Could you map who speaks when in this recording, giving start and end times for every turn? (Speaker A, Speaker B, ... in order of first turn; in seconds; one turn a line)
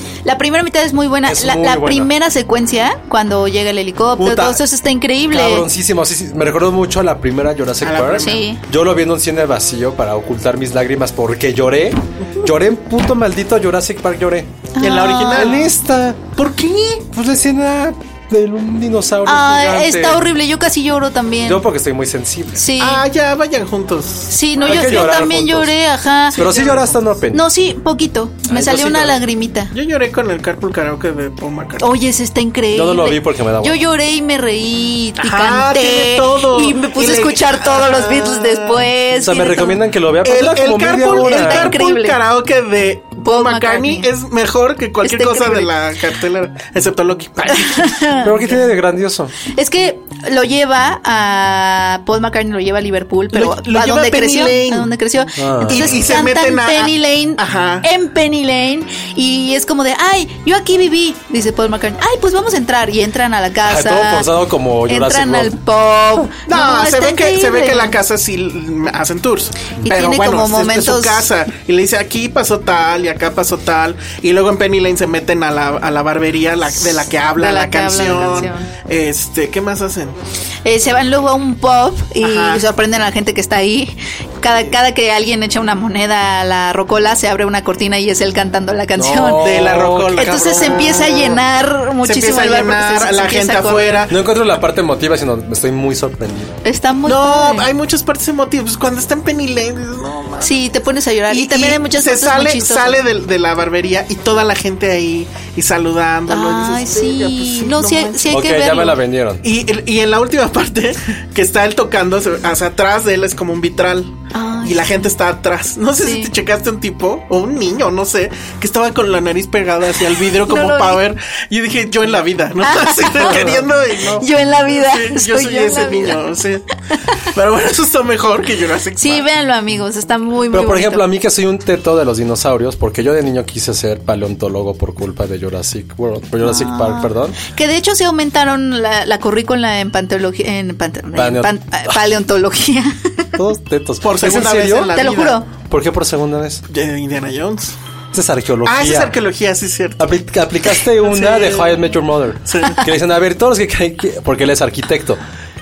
Speaker A: 0.2-5.7
Speaker B: 1.2-2.1
Speaker B: 4.2-4.6
Speaker B: 5.3-16.4
Speaker C: 7.8-8.4
Speaker A: 8.2-8.6
Speaker A: 14.7-15.6
Speaker C: 14.8-15.7
Speaker C: 16.4-17.0
Speaker B: 17.0-20.2
Speaker A: 19.2-21.6
Speaker B: 21.4-22.6
Speaker A: 22.6-23.0
Speaker C: 22.8-25.2
Speaker A: 24.3-26.5
Speaker B: 24.6-25.7
Speaker B: 26.3-27.4
Speaker C: 26.3-27.0
Speaker A: 27.3-29.7
Speaker B: 28.5-29.2
Speaker C: 29.7-31.9
Speaker A: 31.8-39.8
Speaker B: 32.7-33.8
Speaker C: 35.2-38.9
Speaker B: 39.2-41.8
Speaker C: 40.2-48.4
Speaker A: 41.1-42.2
Speaker A: 43.2-44.1
Speaker A: 45.0-45.7
Speaker A: 47.5-48.3
Speaker B: 48.2-49.3
Speaker A: 49.5-64.3
Speaker C: 53.3-54.9
Speaker B: 55.4-56.0
Speaker C: 55.6-57.9
Speaker B: 63.6-65.5
Speaker A: 64.8-68.0
Speaker C: 66.5-80.2
Speaker A: 69.8-71.3
Speaker A: 77.3-78.7
Speaker A: 80.6-89.5
Speaker C: 82.2-82.6
Speaker B: 89.0-90.9
Speaker C: 89.4-91.4
Speaker A: 90.2-94.0
Speaker C: 92.0-94.2
Speaker B: 94.1-96.6
Speaker A: 96.6-97.7
Speaker C: 97.0-100.5
Speaker A: 100.4-103.0
Speaker C: 101.3-108.5
Speaker A: 106.3-109.0
Speaker B: 108.3-109.4
Speaker C: 109.4-126.6
Speaker A: 114.3-115.1
Speaker A: 116.0-116.3
Speaker A: 120.4-121.0
Speaker A: 122.6-123.5
Speaker B: 123.2-123.7
Speaker A: 124.2-126.2
Speaker C: 127.2-129.3
Speaker A: 129.0-131.1
Speaker B: 130.5-137.4
Speaker A: 136.4-143.3
Speaker B: 141.2-142.0
Speaker B: 143.4-145.0
Speaker C: 144.0-145.4
Speaker A: 144.9-145.5
Speaker B: 145.6-146.6
Speaker C: 146.7-147.8
Speaker B: 148.1-149.1
Speaker C: 148.6-150.1
Speaker B: 150.0-155.2
Speaker C: 150.9-151.8
Speaker C: 152.4-152.8